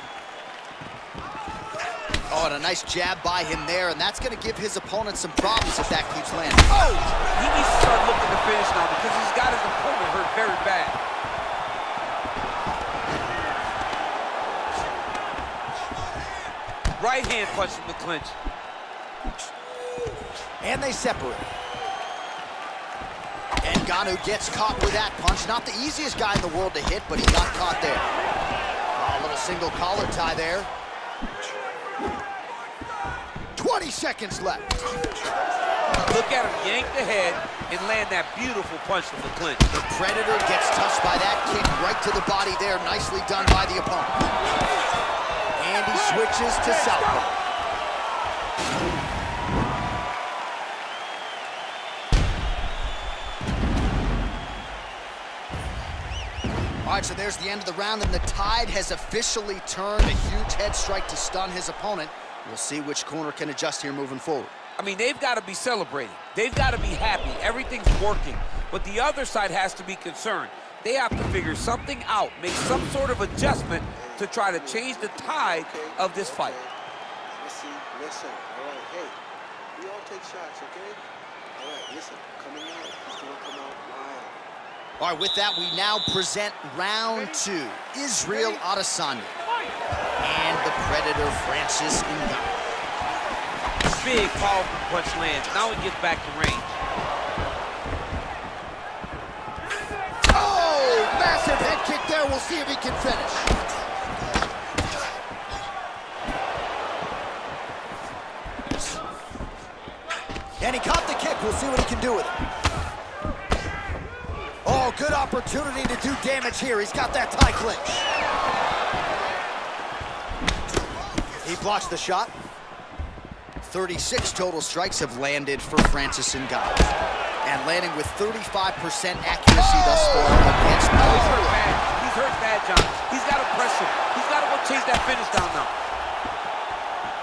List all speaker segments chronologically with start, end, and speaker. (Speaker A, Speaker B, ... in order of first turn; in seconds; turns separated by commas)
Speaker A: 2.3-6.7, Speaker B: 6.7-11.0, Speaker B: 17.0-18.4, Speaker A: 20.6-21.4, Speaker A: 23.6-28.1, Speaker A: 28.9-30.7, Speaker A: 33.5-34.7, Speaker B: 36.0-39.6, Speaker A: 39.7-44.2, Speaker A: 45.5-47.4, Speaker A: 56.8-64.5, Speaker B: 64.8-76.6, Speaker C: 74.8-76.7, Speaker C: 77.3-79.2, Speaker C: 79.7-81.0, Speaker C: 81.6-84.4, Speaker A: 85.0-89.3, Speaker A: 90.2-92.5, Speaker B: 94.0-96.8, Speaker A: 100.3-103.5, Speaker A: 110.6-112.4, Speaker A: 114.6-118.1, Speaker A: 121.4-122.3, Speaker A: 123.6-126.8, Speaker A: 127.4-131.6, Speaker B: 131.0-135.7